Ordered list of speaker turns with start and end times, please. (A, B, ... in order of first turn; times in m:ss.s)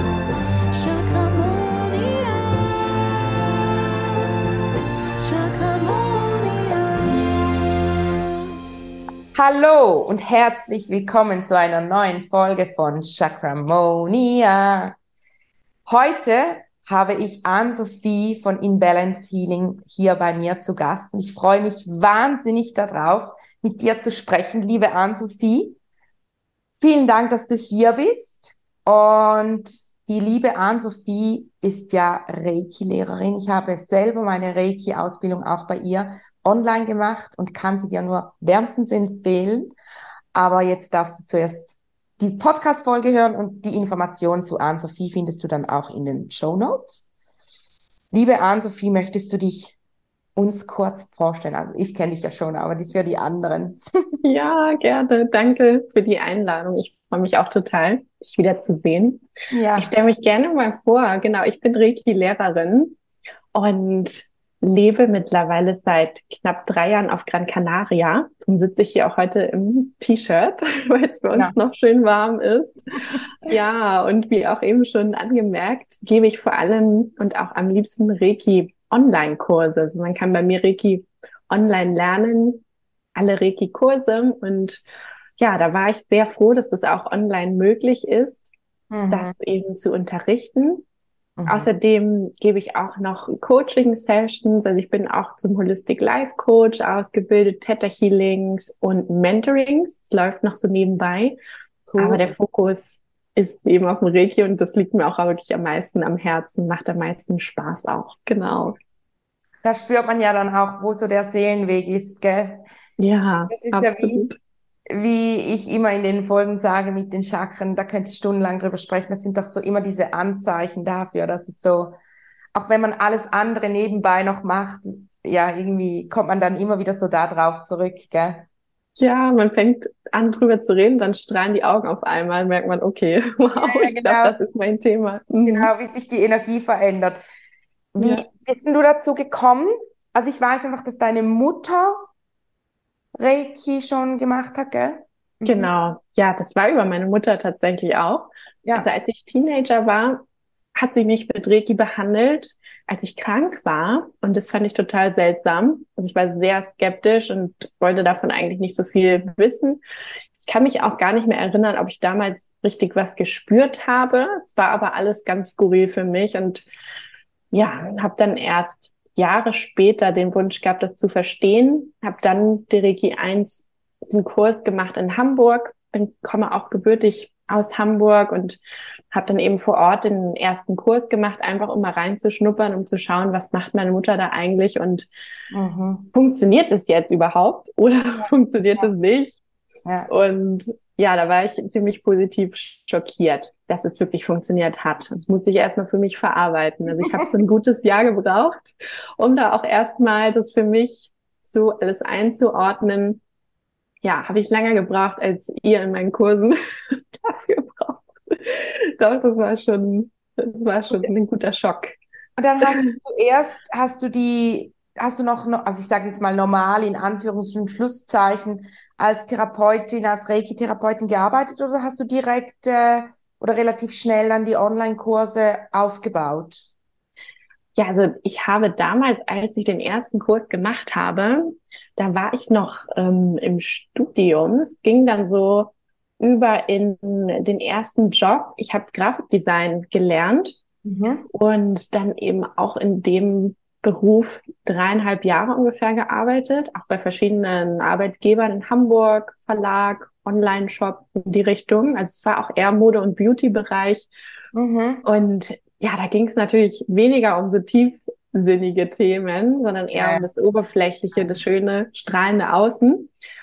0:00.7-0:04.1 A
0:05.2-0:08.5 A
0:09.3-0:15.0 B
0:15.8-0:25.8 B
0:26.8-0:39.7 B
0:40.3-0:47.0 B
0:48.1-0:49.8 B
0:50.4-0:53.8 B
0:54.2-0:59.2 C
0:59.5-0:59.9 B
0:59.8-1:03.0 C
1:03.5-1:12.8 C
1:13.1-1:13.5 B
1:13.4-1:22.6 C
1:23.2-1:24.8 C
1:25.4-1:28.5 C
1:28.9-1:29.3 B
1:29.1-1:30.8 C
1:31.4-1:31.7 B
1:31.5-1:41.4 C
1:41.9-1:42.3 B
1:42.0-1:48.8 C
1:49.6-1:52.6 B
1:53.0-1:54.4 C
1:53.5-1:54.3 B
1:54.9-2:01.9 B
2:02.5-2:08.5 B
2:09.0-2:15.7 C
2:13.6-2:14.4 B
2:15.4-2:17.2 B
2:17.9-2:22.0 B
2:18.0-2:18.2 C
2:23.1-2:25.7 B
2:25.4-2:30.2 C
2:28.6-2:28.9 B
2:30.8-2:39.8 C
2:40.4-2:46.6 C
2:47.5-2:58.6 C
2:59.1-3:05.1 C
3:05.5-3:06.1 B
3:06.1-3:09.4 C
3:08.1-3:08.9 B
3:09.8-3:10.1 B
3:10.1-3:23.2 C
3:24.0-3:32.0 C
3:32.4-3:46.7 B
3:32.6-3:32.9 C
3:47.7-4:00.6 C
4:00.8-4:01.2 B
4:01.3-4:14.1 C
4:14.5-4:15.0 B
4:15.0-4:23.1 C
4:20.0-4:20.3 B
4:21.1-4:21.4 B